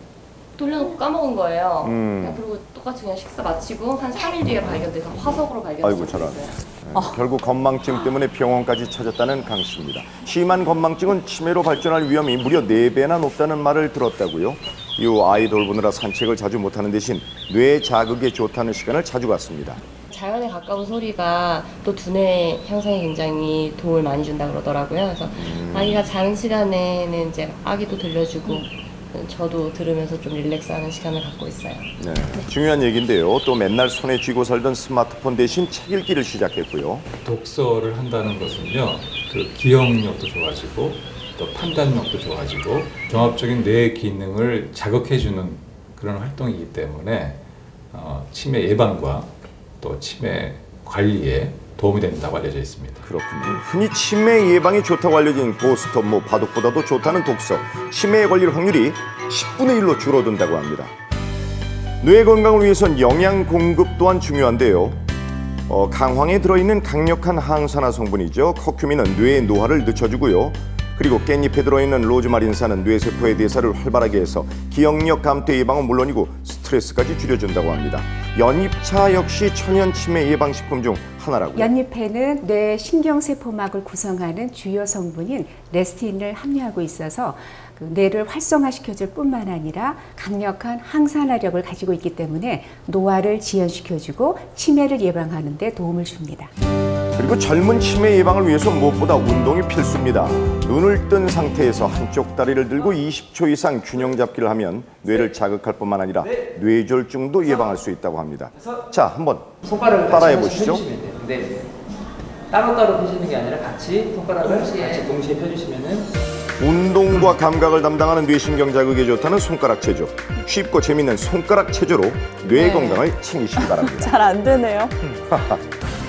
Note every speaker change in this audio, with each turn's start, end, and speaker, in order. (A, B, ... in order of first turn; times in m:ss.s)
0:00.6-0:06.6 A
0:01.8-0:02.4 B
0:05.8-0:19.8 B
0:06.9-0:07.2 C
0:20.1-0:32.4 A
0:25.4-0:26.0 B
0:32.0-0:37.0 B
0:37.2-0:47.4 D
0:47.9-0:53.1 D
0:53.0-1:00.9 B
1:02.0-1:05.0 B
1:05.7-1:21.7 B
1:21.6-1:36.5 E
1:37.2-1:50.9 B
1:49.6-1:51.6 F
1:52.5-1:56.1 F
1:56.6-2:04.2 B
2:02.5-2:04.9 C
2:05.3-2:05.6 B